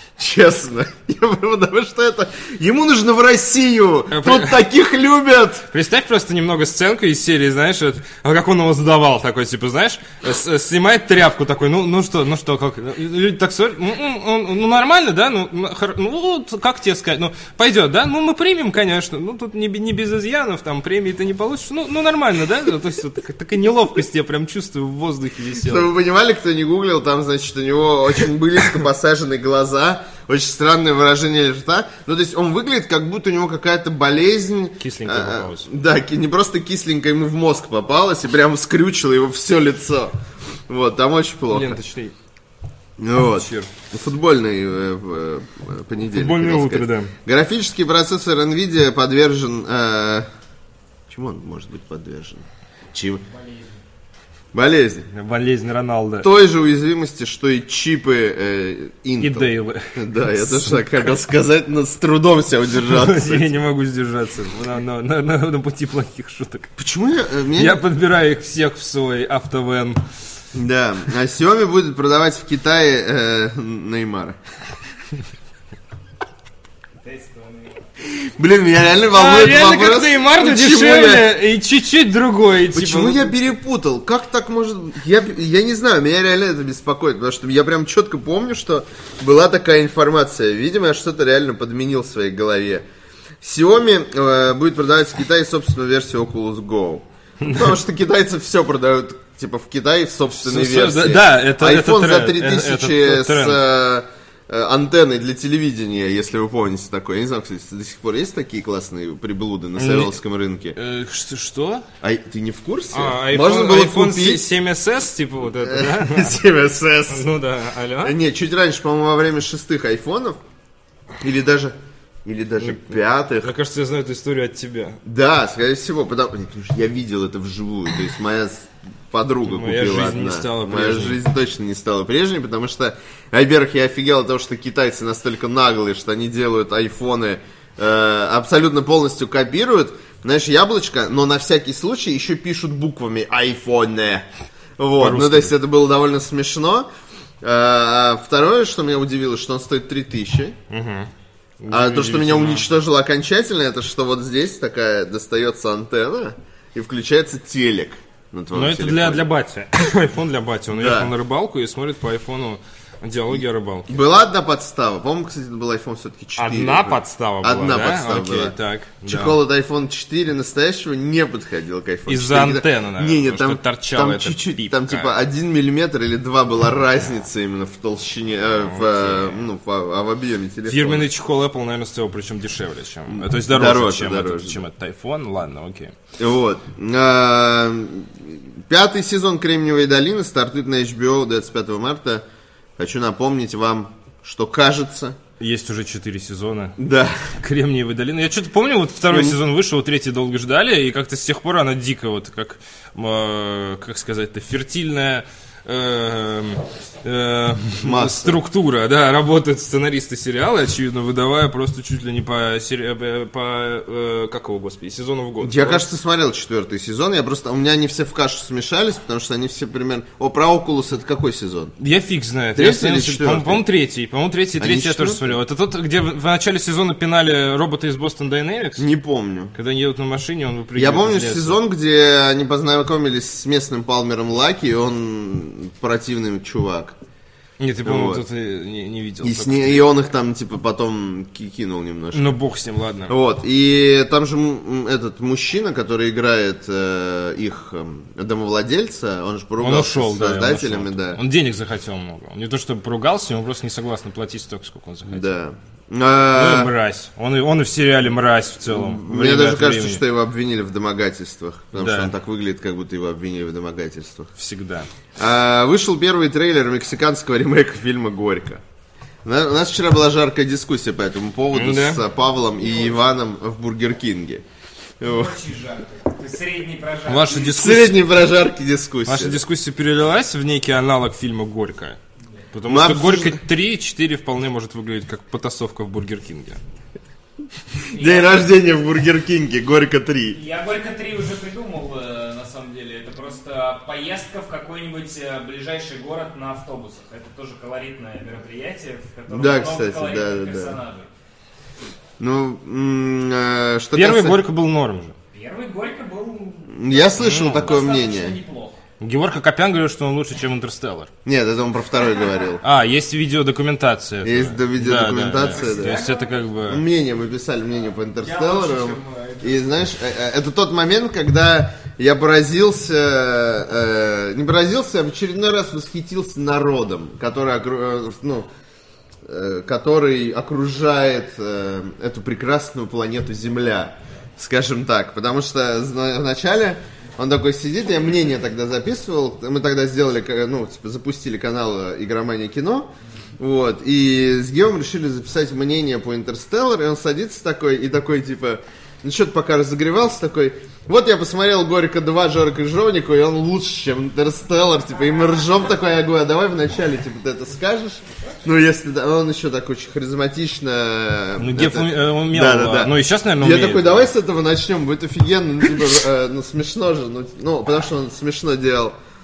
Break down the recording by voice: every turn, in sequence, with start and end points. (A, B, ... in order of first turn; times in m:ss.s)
0:00.2-0:05.7 A
0:04.1-0:04.6 B
0:05.7-0:25.9 B
0:25.6-0:40.1 A
0:34.8-0:35.7 B
0:40.7-0:41.8 A
0:41.5-0:42.1 B
0:43.0-0:50.3 A
0:43.4-0:43.7 B
0:46.1-0:47.1 B
0:51.1-0:53.2 A
0:53.3-0:53.8 C
0:54.5-0:55.1 A
0:55.1-0:56.3 B
0:56.2-1:03.5 A
0:59.2-1:01.1 B
1:02.9-1:06.7 B
1:06.8-1:07.8 A
1:07.6-1:10.0 B
1:10.5-1:14.4 A
1:17.0-1:17.8 C
1:18.3-1:21.3 A
1:19.1-1:23.4 B
1:22.7-1:32.8 A
1:33.4-1:50.8 A
1:37.4-1:37.7 B
1:40.3-1:43.6 B
1:49.8-1:50.1 B
1:50.8-1:51.9 B
1:52.0-1:54.5 A
1:52.9-1:56.4 B
1:55.6-1:57.3 A
1:57.1-1:58.2 B
1:58.0-2:00.4 A
2:01.2-2:03.6 A
2:02.6-2:05.0 B
2:05.0-2:24.3 A
2:09.4-2:11.2 B
2:24.8-2:26.9 A
2:25.0-2:25.5 B
2:27.4-2:30.6 A
2:30.7-2:32.7 B
2:31.7-2:39.3 A
2:38.5-2:43.9 B
2:40.7-2:41.1 A
2:43.9-3:01.1 A
2:46.4-2:49.4 B
2:52.1-2:55.1 B
2:58.6-2:59.5 B
3:00.7-3:06.0 B
3:03.1-3:04.6 A
3:06.2-3:12.2 A
3:12.8-3:15.2 A
3:15.4-3:16.8 B
3:16.8-3:17.3 A
3:17.3-3:35.9 B
3:19.1-3:19.4 A
3:27.8-3:28.4 A
3:35.4-3:41.8 A
3:41.8-3:48.9 B
3:42.6-3:43.6 A
3:44.6-3:45.3 A
3:48.8-3:49.6 A
3:49.5-3:51.6 B
3:50.8-3:57.0 A
3:57.6-3:59.9 B
3:57.8-3:58.2 A
3:59.2-4:02.4 A
4:02.1-4:03.2 B
4:03.1-4:11.2 A
4:09.6-4:15.4 B
4:15.1-4:16.7 A
4:16.3-4:20.0 B
4:18.7-4:24.3 A
4:21.8-4:22.1 B
4:24.4-4:24.9 B
4:25.2-4:28.6 A
4:29.2-4:34.4 A
4:31.5-4:32.0 B
4:32.6-4:33.0 C
4:35.0-4:35.4 A
4:35.0-4:37.6 C
4:37.1-4:38.0 B
4:37.3-4:39.4 A
4:39.1-4:42.0 B
4:42.5-4:46.6 B
4:42.7-4:43.4 A
4:47.9-4:50.4 A
4:47.9-4:48.6 C
4:50.3-5:01.1 C
4:59.3-5:00.8 A
5:02.2-5:04.4 A
5:03.9-5:05.2 B
5:05.3-5:08.8 C
5:06.7-5:08.4 A
5:07.2-5:07.6 B
5:09.0-5:11.1 B
5:11.2-5:12.6 A
5:12.6-5:16.8 B
5:14.2-5:16.0 A
5:15.4-5:16.4 C
5:16.7-5:28.5 A
5:18.2-5:19.6 C
5:29.2-6:09.0 A
6:01.4-6:04.1 B